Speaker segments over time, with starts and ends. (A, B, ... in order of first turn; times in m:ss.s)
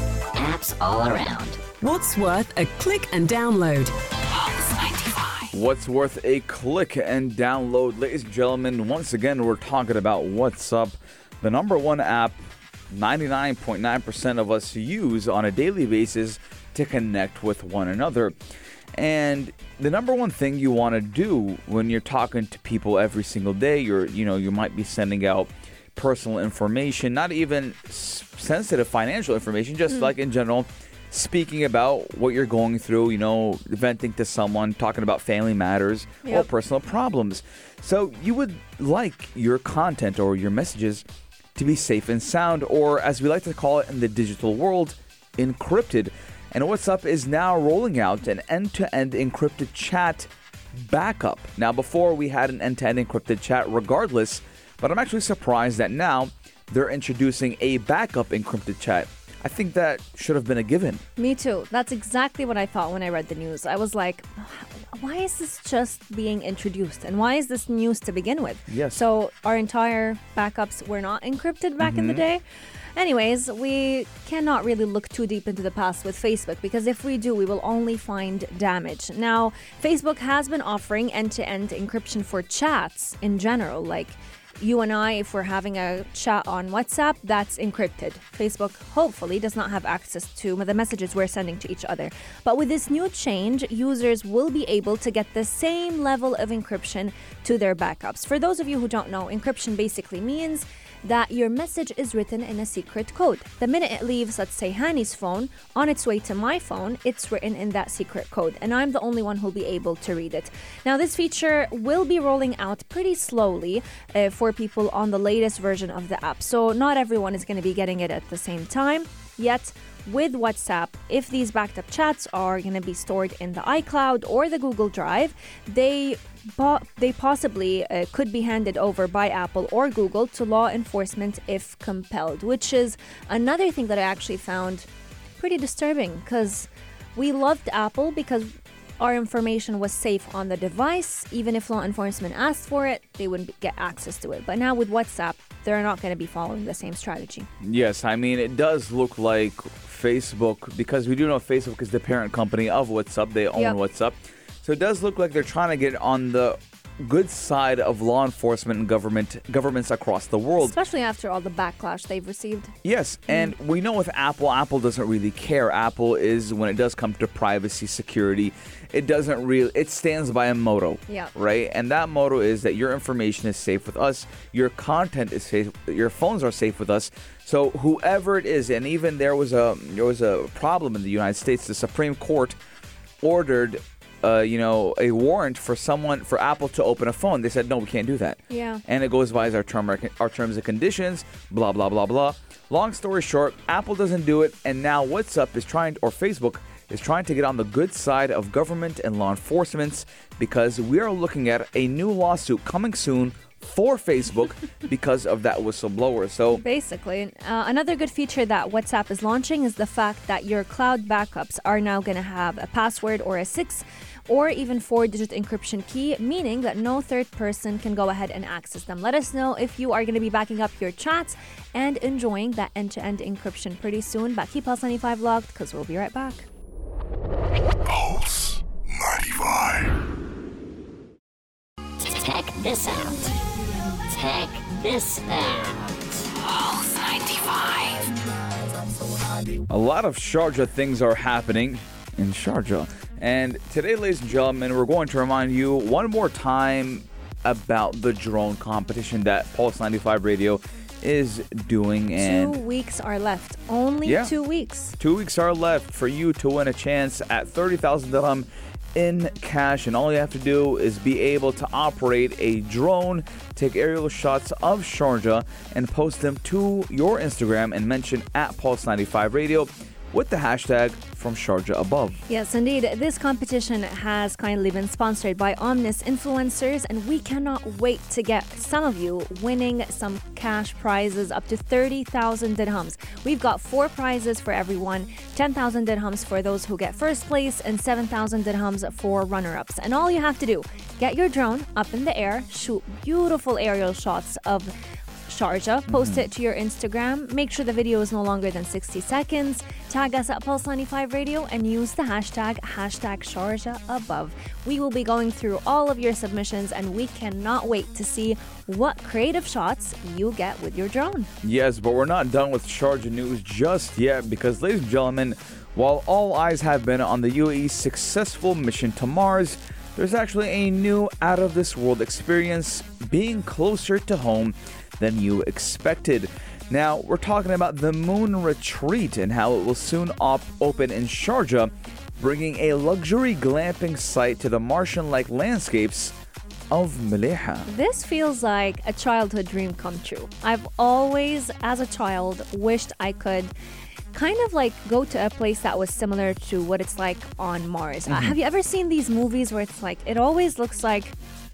0:00.3-0:01.6 A
0:01.8-0:03.9 B
0:04.3-0:05.5 A
0:05.5-0:12.4 C
0:12.9-0:18.4 C
0:18.9-1:01.0 C
1:01.2-1:12.4 D
1:08.7-1:09.0 C
1:11.8-1:12.2 C
1:13.0-2:14.9 D
2:15.4-2:27.5 D
2:27.6-2:40.8 C
2:40.6-2:42.7 D
2:42.8-3:02.6 C
2:43.3-2:43.5 D
3:03.2-3:26.6 C
3:08.5-3:08.8 D
3:26.5-3:46.5 D
3:47.8-3:50.0 E
3:52.0-3:53.3 A
3:54.0-3:58.1 A
3:59.7-4:12.6 C
4:12.2-4:15.0 D
4:14.0-4:14.3 C
4:15.0-4:32.2 C
4:32.3-4:54.7 D
4:55.3-5:11.3 D
4:55.9-4:56.2 C
5:11.4-5:36.1 C
5:36.7-5:37.7 C
5:37.7-5:43.5 D
5:44.1-5:51.2 D
5:48.1-5:48.4 C